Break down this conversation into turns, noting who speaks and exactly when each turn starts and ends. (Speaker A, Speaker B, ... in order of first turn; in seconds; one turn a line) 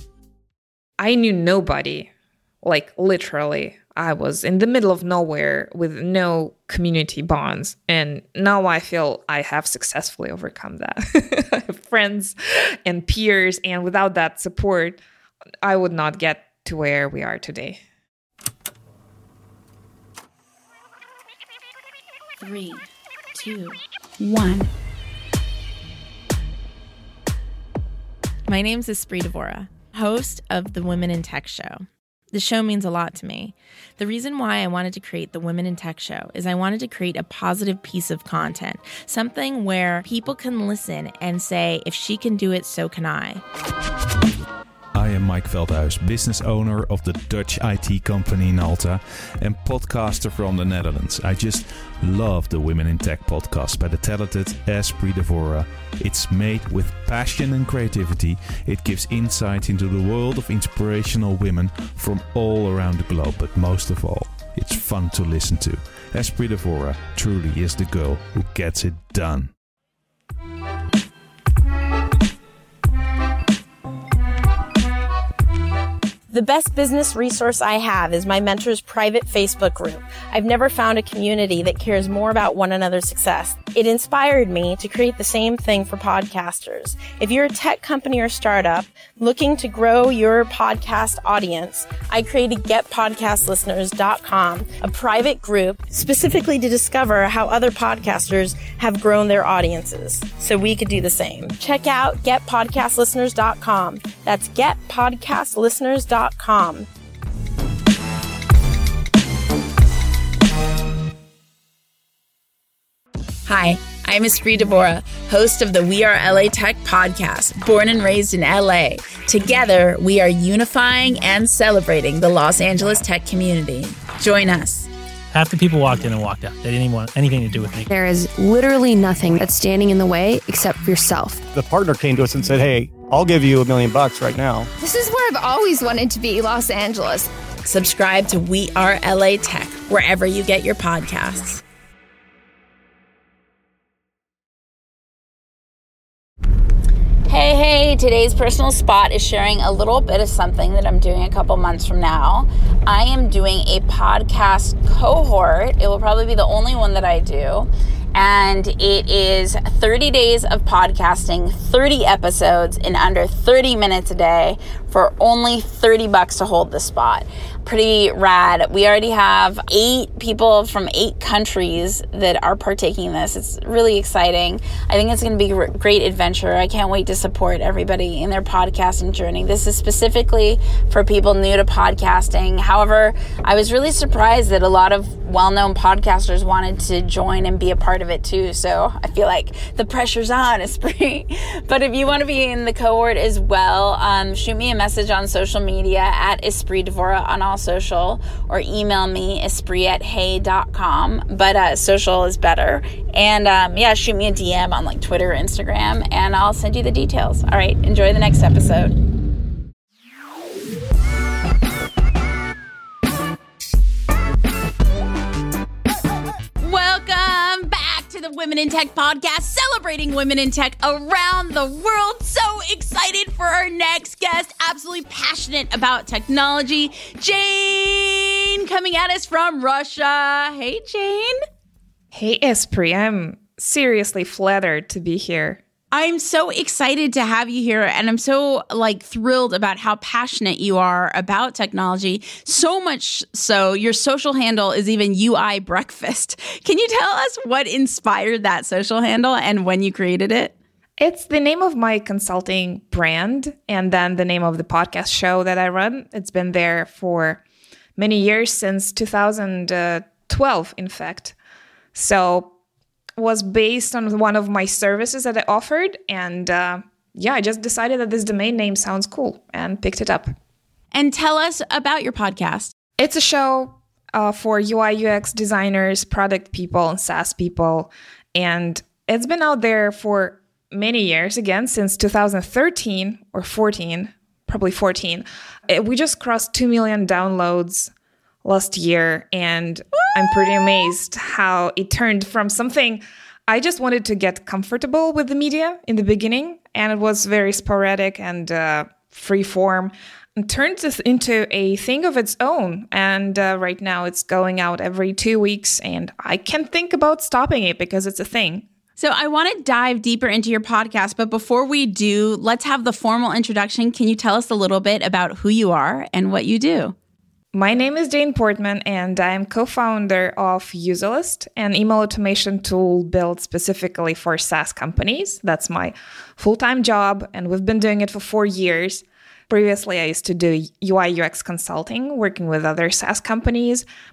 Speaker A: 1.0-2.1
Speaker A: 2.6-15.0
Speaker A: 15.6-17.8
Speaker B: 22.4-24.7
Speaker B: 28.5-43.4
Speaker C: 44.9-69.5
Speaker D: 76.3-106.9
Speaker B: 113.5-124.9
Speaker E: 125.3-127.9
Speaker F: 127.9-131.4
Speaker G: 131.5-134.7
Speaker F: 134.8-137.3
Speaker B: 137.6-141.6
Speaker B: 147.3-208.9
Speaker B: 216.6-231.4
Speaker A: 232.1-235.6
Speaker B: 235.9-250.5
Speaker A: 251.0-257.4
Speaker A: 257.9-261.3
Speaker A: 261.9-262.5
Speaker A: 263.2-270.3
Speaker B: 270.9-272.7
Speaker A: 273.0-287.9
Speaker A: 288.4-308.7
Speaker B: 309.0-316.9
Speaker A: 317.5-333.9